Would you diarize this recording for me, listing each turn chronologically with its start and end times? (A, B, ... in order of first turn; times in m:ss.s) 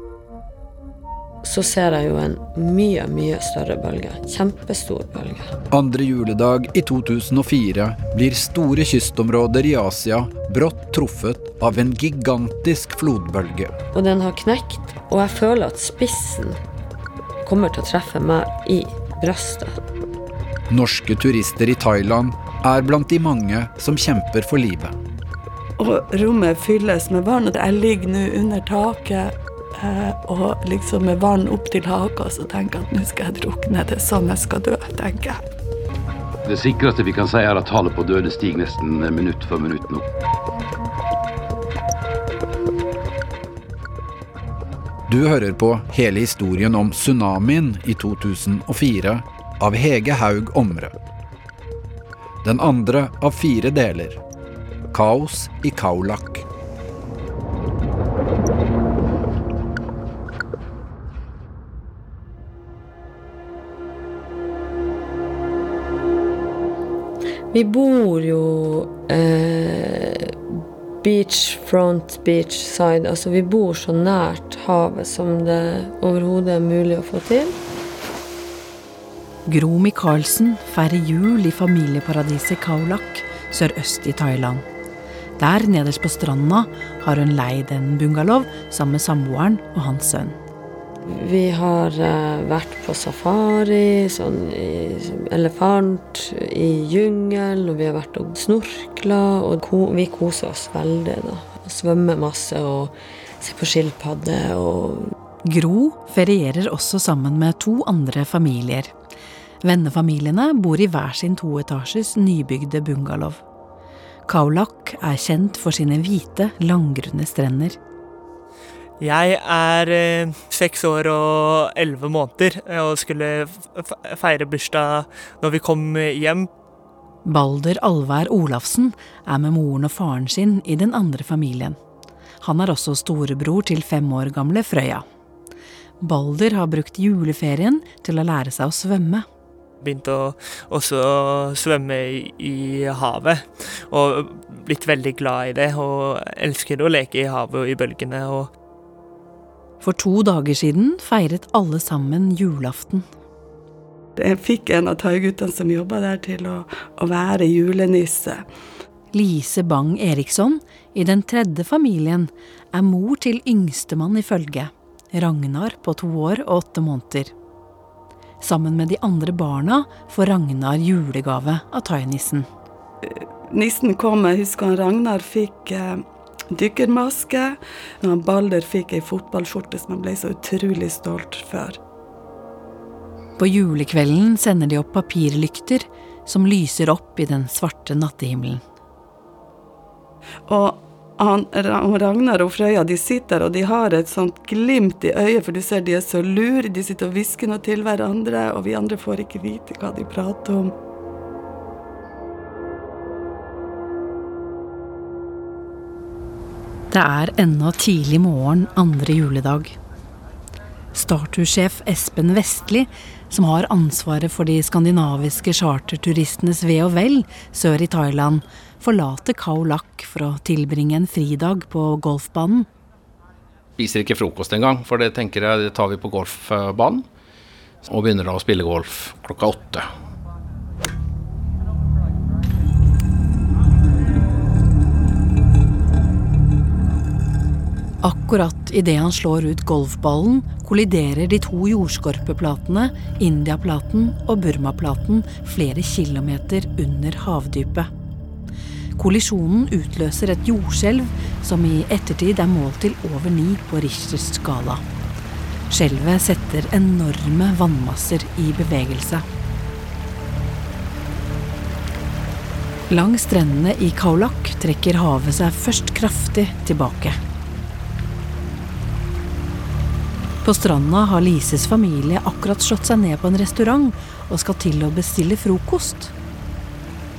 0:01.4-0:05.5 A
0:05.7-0:13.7 B
0:13.9-0:16.6 A
0:17.4-0:19.8 A
0:20.7-0:25.0 B
0:25.8-0:35.4 C
0:36.4-0:40.0 D
0:45.1-0:50.9 B
0:52.4-0:54.2 B
0:54.9-0:56.4 B
1:07.5-1:10.4 A
1:11.0-1:17.6 A
1:19.4-1:24.6 E
1:25.4-1:30.4 E
1:31.0-1:45.1 A
1:45.4-1:48.9 E
1:49.6-1:53.4 E
1:54.3-1:57.8 E
1:59.0-2:06.5 F
2:07.2-2:11.8 E
2:12.4-2:15.0 E
2:16.0-2:19.2 E
2:19.8-2:28.5 F
2:29.8-2:33.0 E
2:34.2-2:38.5 C
2:39.1-2:47.3 E
2:48.4-2:52.5 E
2:53.0-3:01.8 C
3:03.4-3:08.6 E
3:10.5-3:20.7 C
3:26.9-3:29.8 E
3:30.9-3:42.7 E
3:43.8-3:47.0 G
3:47.8-3:49.9 G
3:58.0-4:07.9 E
4:09.0-4:14.8 E
4:15.7-4:19.2 E
4:22.9-4:27.2 E
4:30.4-4:36.1 E